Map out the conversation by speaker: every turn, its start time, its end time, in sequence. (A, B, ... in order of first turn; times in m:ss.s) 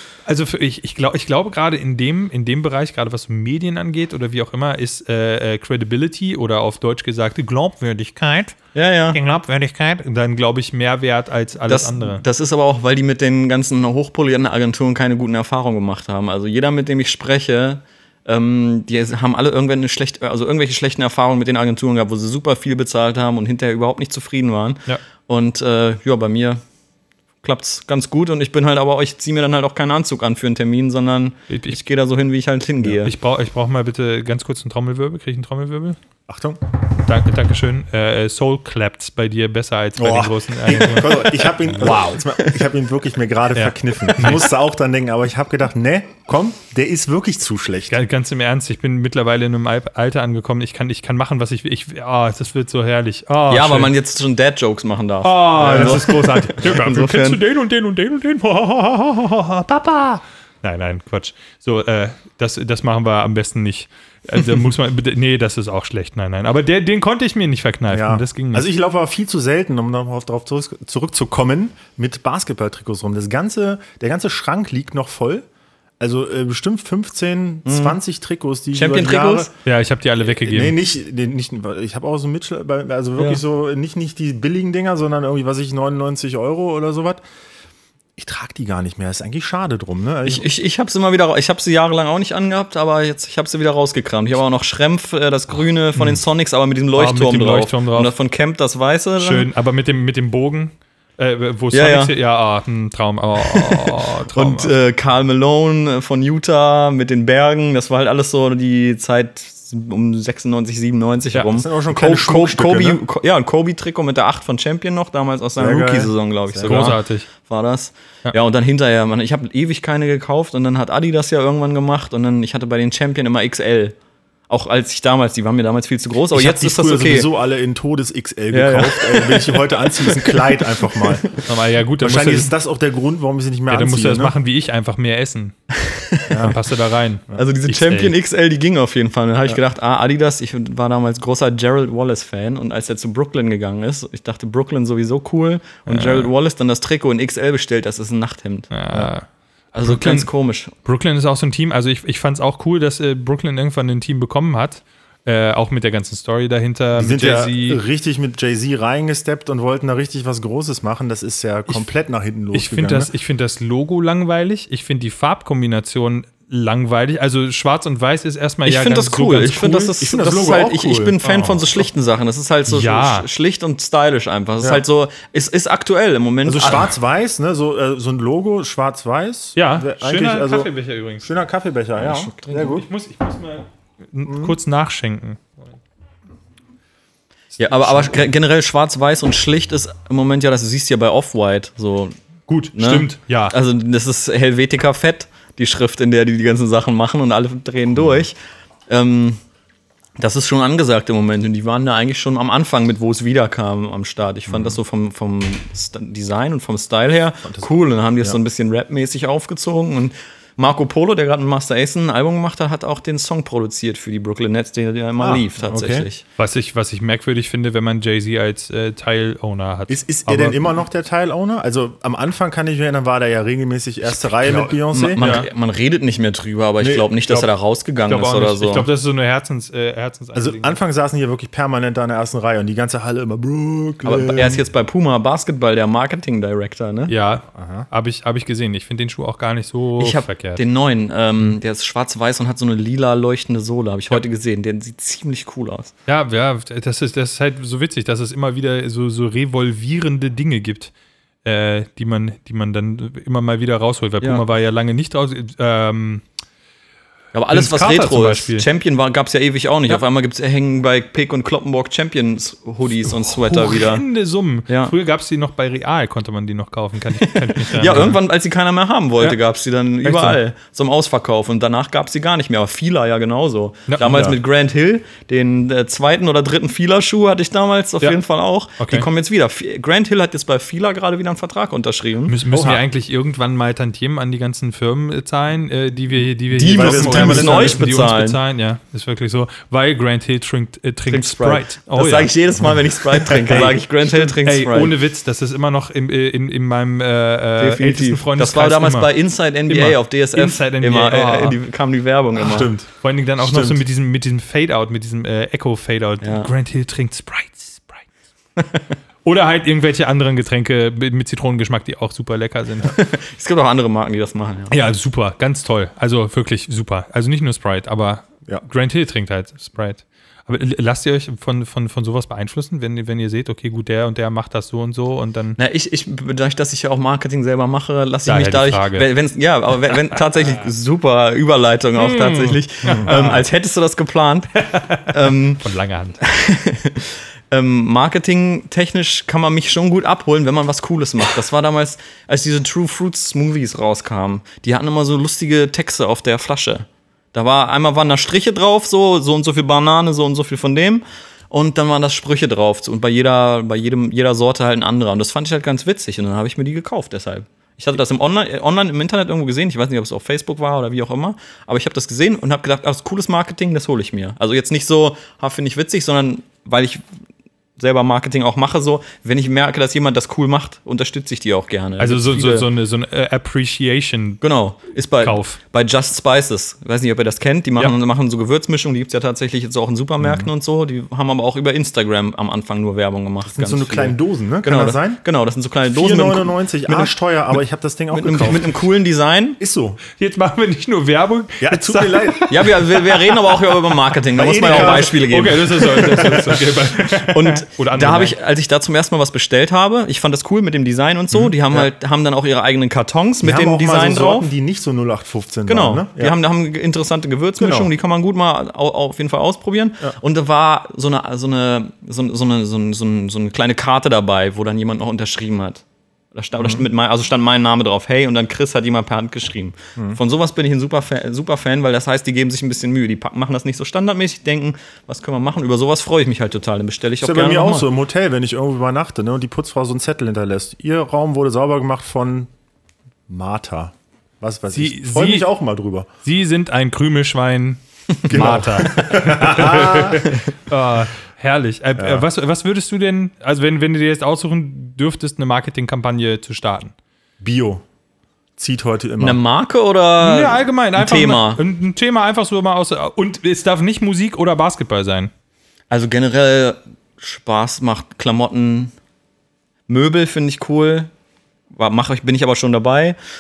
0:00.3-0:08.6 A
0:08.7-0:09.2 B
0:09.1-0:12.2 A
0:11.7-0:26.6 B
0:27.4-0:33.1 B
0:31.5-0:31.8 A
0:33.0-0:36.0 A
0:36.3-0:36.6 C
0:37.0-0:42.2 A
0:40.0-0:48.0 C
0:43.6-0:44.5 A
0:47.9-0:53.9 A
0:53.5-0:57.4 B
0:55.2-1:08.7 A
0:55.6-0:56.0 C
1:07.9-1:15.4 C
1:16.0-1:19.5 C
1:17.7-1:18.0 B
1:18.7-1:19.5 B
1:19.6-1:20.8 A
1:20.4-1:27.2 C
1:23.2-1:23.4 B
1:28.2-1:30.5 C
1:30.2-1:39.5 B
1:37.0-1:38.1 A
1:39.2-1:44.7 A
1:41.7-1:42.2 B
1:43.4-2:04.0 B
1:51.5-1:53.0 C
1:55.6-1:57.0 C
1:56.7-1:57.3 A
2:04.5-2:07.3 B
2:06.3-2:11.3 C
2:08.5-2:11.4 B
2:11.5-2:12.5 A
2:12.0-2:14.3 C
2:13.7-2:15.6 A
2:15.8-2:16.5 B
2:16.3-2:16.6 C
2:16.4-2:18.1 A
2:17.4-2:28.7 B
2:25.9-2:26.3 A
2:28.7-2:29.3 A
2:29.7-2:30.7 B
2:29.8-2:30.3 A
2:30.8-2:37.8 A
2:37.0-2:43.1 C
2:42.5-2:49.9 A
2:48.6-2:56.9 B
2:50.0-2:51.2 C
2:51.2-2:51.7 A
2:52.7-2:53.3 A
2:56.4-3:00.7 C
2:59.6-3:01.3 A
3:01.2-3:02.9 C
3:02.0-3:02.7 B
3:02.7-3:05.8 A
3:04.2-3:04.6 C
3:07.6-3:12.1 B
3:07.8-3:08.1 A
3:12.5-3:13.6 A
3:12.8-3:18.4 B
3:18.9-3:19.4 B
3:20.2-3:36.2 B
3:24.5-3:24.8 C
3:35.2-3:36.1 C
3:36.4-3:40.6 A
3:39.9-3:45.2 C
3:44.4-3:48.9 B
3:45.2-3:45.5 A
3:46.8-3:47.5 C
3:48.1-3:50.8 A
3:50.3-3:54.6 C
3:54.0-3:57.1 B
3:57.1-4:00.6 A
3:57.5-3:57.9 C
4:00.0-4:05.9 B
4:06.1-4:10.9 A
4:11.4-4:16.2 A
4:17.3-4:24.0 B
4:17.5-4:18.7 A
4:23.0-4:28.2 A
4:24.7-4:24.9 B
4:27.2-4:42.4 B
4:30.0-4:30.4 A
4:33.9-4:34.2 A
4:34.0-4:34.4 C
4:38.8-4:39.1 A
4:42.3-4:52.3 A
4:42.5-4:42.8 C
4:46.5-4:48.4 B
4:46.7-4:47.8 C
4:51.1-4:55.0 B
4:53.3-4:53.7 C
4:53.5-4:59.1 A
4:57.6-5:02.7 B
4:59.7-5:01.6 A
5:02.4-5:03.8 C
5:03.0-5:08.1 A
5:06.2-5:06.5 B
5:08.6-5:08.8 B
5:09.2-5:12.9 A
5:12.8-5:14.8 B
5:14.7-5:25.6 A
5:25.6-5:35.6 B
5:28.3-5:29.1 A
5:32.0-5:33.4 A
5:34.6-5:36.2 A
5:36.2-6:07.0 B
6:07.8-6:12.7 B
6:12.0-6:14.4 A
6:14.4-6:27.1 B
6:15.2-6:15.6 A
6:20.2-6:20.5 C
6:23.5-6:25.2 C
6:25.9-6:28.8 C
6:28.1-6:29.6 B
6:29.6-6:30.0 C
6:30.2-6:32.7 A
6:31.6-6:32.6 C
6:32.5-6:36.5 B
6:34.4-6:36.6 C
6:34.7-6:38.4 A
6:37.1-6:44.5 B
6:41.3-6:41.9 C
6:43.4-6:46.4 C
6:45.7-6:55.8 B
6:47.6-6:47.9 C
6:56.4-7:07.9 B
6:56.6-6:56.8 C
7:07.2-7:12.5 C
7:13.3-7:16.1 C
7:14.7-7:15.5 A
7:16.2-7:26.9 A
7:18.3-7:20.3 C
7:18.9-7:19.1 B
7:22.0-7:22.3 C
7:27.4-7:27.8 C
7:28.6-7:29.4 C
7:29.2-7:31.6 B
7:30.2-7:35.3 A
7:35.9-7:38.9 B
7:39.9-7:41.1 B
7:41.7-7:43.2 B